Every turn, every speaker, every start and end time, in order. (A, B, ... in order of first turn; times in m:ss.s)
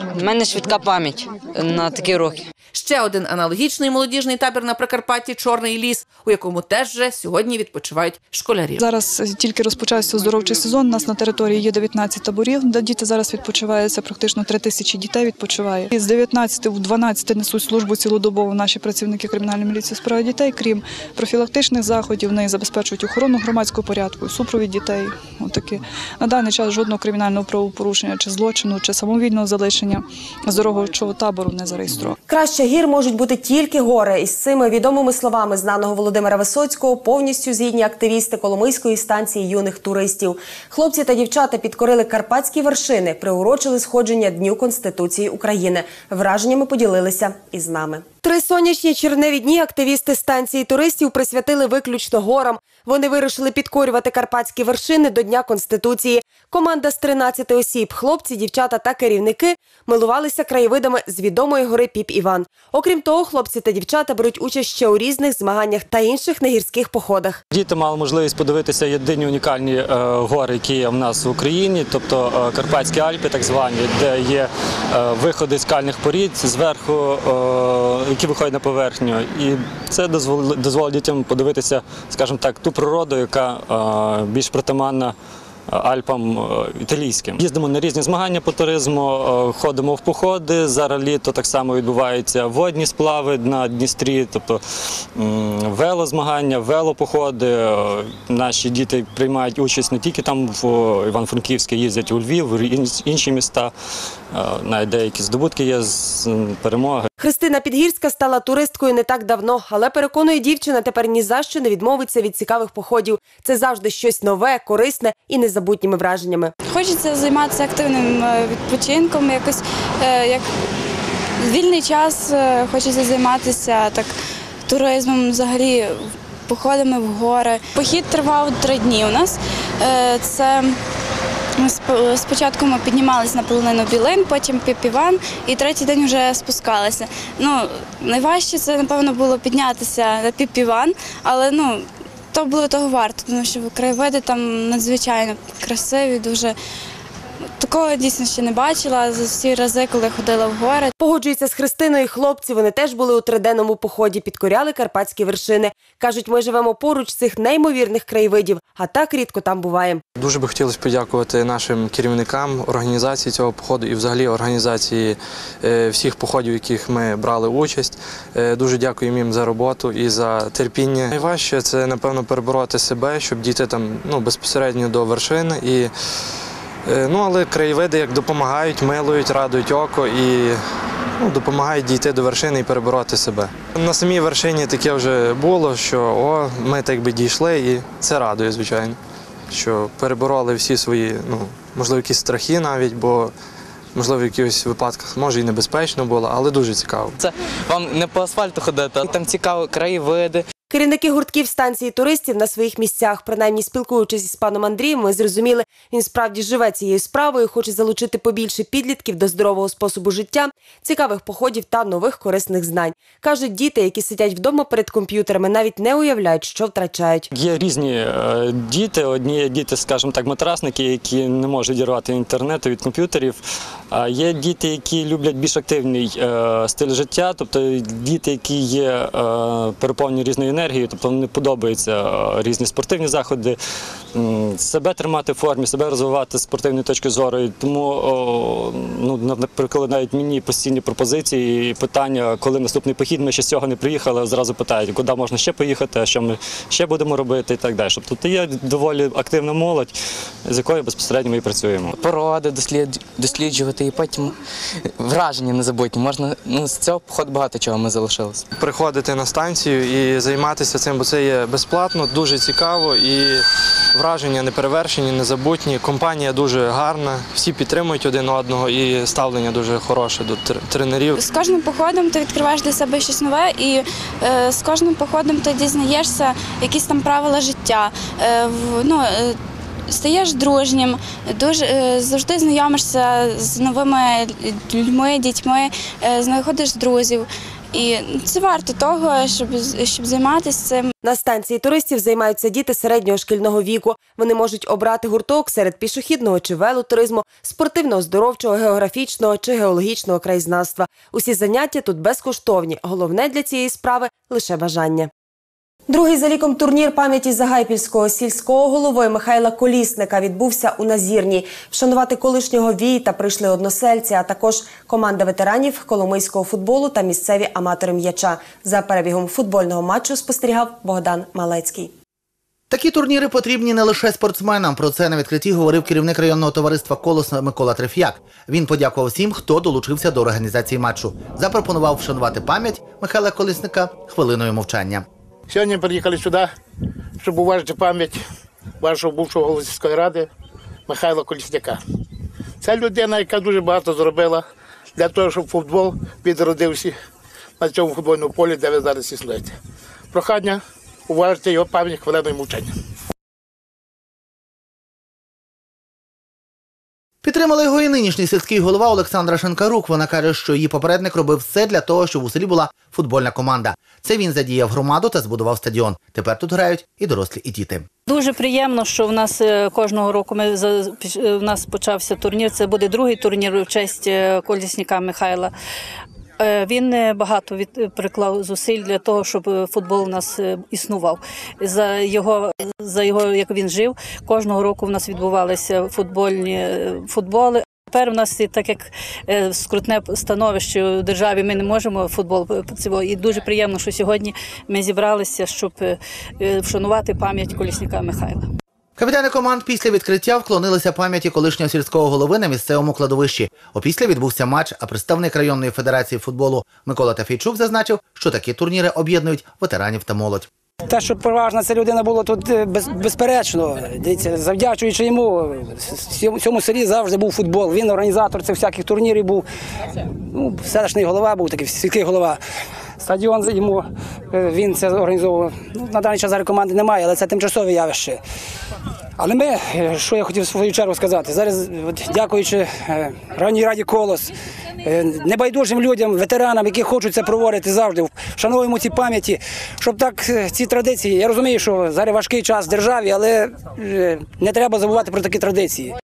0:00.1-0:02.3 A
0:02.7-0:08.8 B
0:08.8-0:32.2 C
0:32.3-1:07.4 D
1:07.5-1:25.1 E
1:25.7-1:34.6 E
1:35.2-1:43.7 E
1:44.3-1:47.1 E
1:47.2-1:56.5 D
1:56.6-2:00.5 F
2:01.4-2:04.1 F
2:04.7-2:10.8 F
2:11.6-2:26.6 F
2:27.6-2:30.9 F
2:31.0-2:40.0 D
2:40.2-2:55.9 G
2:56.8-3:00.6 G
3:01.2-3:09.0 G
3:09.5-3:13.3 G
3:13.9-3:17.2 G
3:17.2-3:20.4 H
3:20.7-3:37.3 D
3:37.3-3:53.6 E
3:54.1-4:09.9 E
4:10.4-4:12.0 E
4:12.0-4:14.3 H
4:15.0-4:18.4 H
4:18.6-4:31.2 G
4:31.2-4:50.9 F
4:51.0-5:05.1 D
5:05.9-5:21.9 D
5:22.7-5:35.0 I
5:35.5-5:36.4 A
5:37.2-5:38.1 A
5:38.8-5:40.2 A
5:40.9-5:41.7 A
5:42.6-5:44.4 A
5:45.0-5:46.9 A
5:47.6-5:49.5 A
5:50.1-5:50.5 A
5:51.1-5:52.6 A
5:57.2-6:07.9 I
6:08.1-6:15.5 J
6:16.4-6:38.5 J
6:39.0-6:50.5 I
6:50.8-6:59.4 K
7:00.3-7:02.4 K
7:03.0-7:08.2 K
7:09.2-7:25.9 K